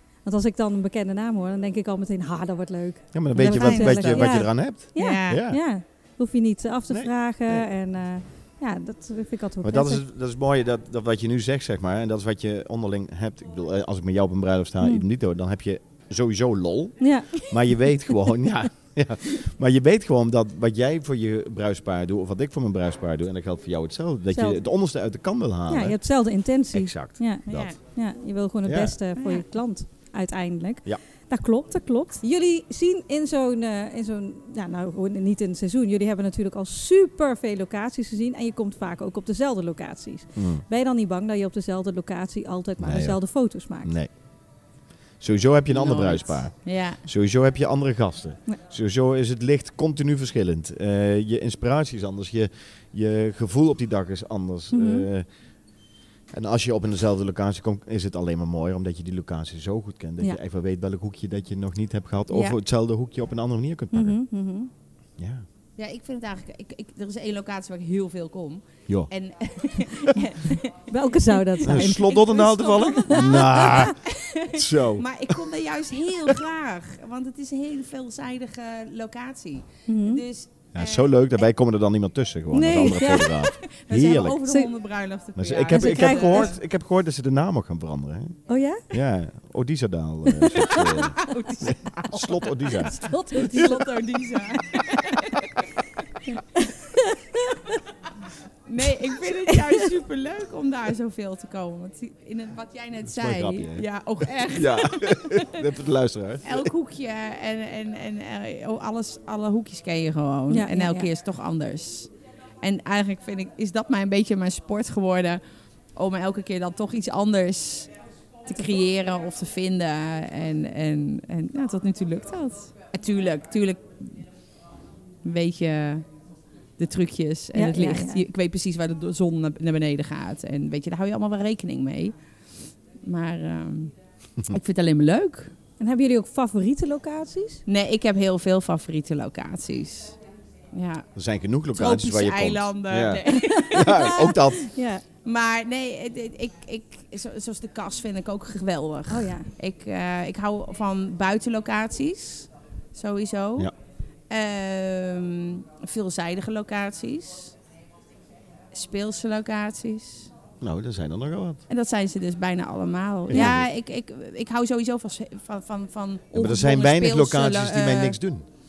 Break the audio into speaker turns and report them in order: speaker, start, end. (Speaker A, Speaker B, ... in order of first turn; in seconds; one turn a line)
Speaker A: 0.2-10.0
Speaker B: 3.1-5.6
Speaker C: 3.4-5.4
Speaker B: 6.9-7.7
Speaker B: 9.6-27.8
Speaker A: 17.0-17.5
Speaker A: 24.3-24.6
Speaker A: 25.7-43.9
Speaker C: 27.4-27.8
Speaker B: 28.6-29.0
Speaker C: 29.1-29.4
Speaker B: 40.4-40.6
Speaker B: 42.8-44.1
Speaker B: 45.2-55.2
Speaker C: 45.7-47.0
Speaker A: 54.7-55.1
Speaker B: 56.3-64.2
Speaker C: 62.3-62.6
Speaker A: 63.9-64.7
Speaker B: 65.2-65.4
Speaker C: 65.8-81.4
Speaker A: 70.9-72.2
Speaker B: 71.6-75.4
Speaker A: 73.1-73.9
Speaker A: 79.9-80.2
Speaker B: 80.7-84.4
Speaker A: 82.5-83.5
Speaker C: 82.8-86.5
Speaker B: 85.4-88.4
Speaker A: 85.7-86.5
Speaker A: 88.5-88.9
Speaker B: 88.9-93.1
Speaker A: 90.3-91.0
Speaker C: 90.8-95.8
Speaker A: 92.9-93.9
Speaker A: 96.3-97.8
Speaker C: 98.7-105.7
Speaker A: 99.5-99.9
Speaker B: 103.0-103.8
Speaker B: 104.5-106.7
Speaker C: 106.4-115.4
Speaker A: 110.5-111.1
Speaker C: 115.9-117.9
Speaker C: 118.5-124.3
Speaker C: 125.2-126.0
Speaker C: 126.8-132.1
Speaker A: 127.5-128.2
Speaker C: 133.0-133.9
Speaker C: 134.4-135.5
Speaker A: 135.8-137.6
Speaker C: 137.7-140.2
Speaker C: 140.7-141.1
Speaker B: 141.1-144.7
Speaker C: 141.7-144.4
Speaker A: 143.5-145.0
Speaker C: 145.2-153.7
Speaker A: 149.1-149.5
Speaker C: 154.3-157.5
Speaker C: 158.7-160.3
Speaker B: 160.6-161.6
Speaker C: 161.7-168.2
Speaker B: 163.3-163.7
Speaker B: 166.3-168.4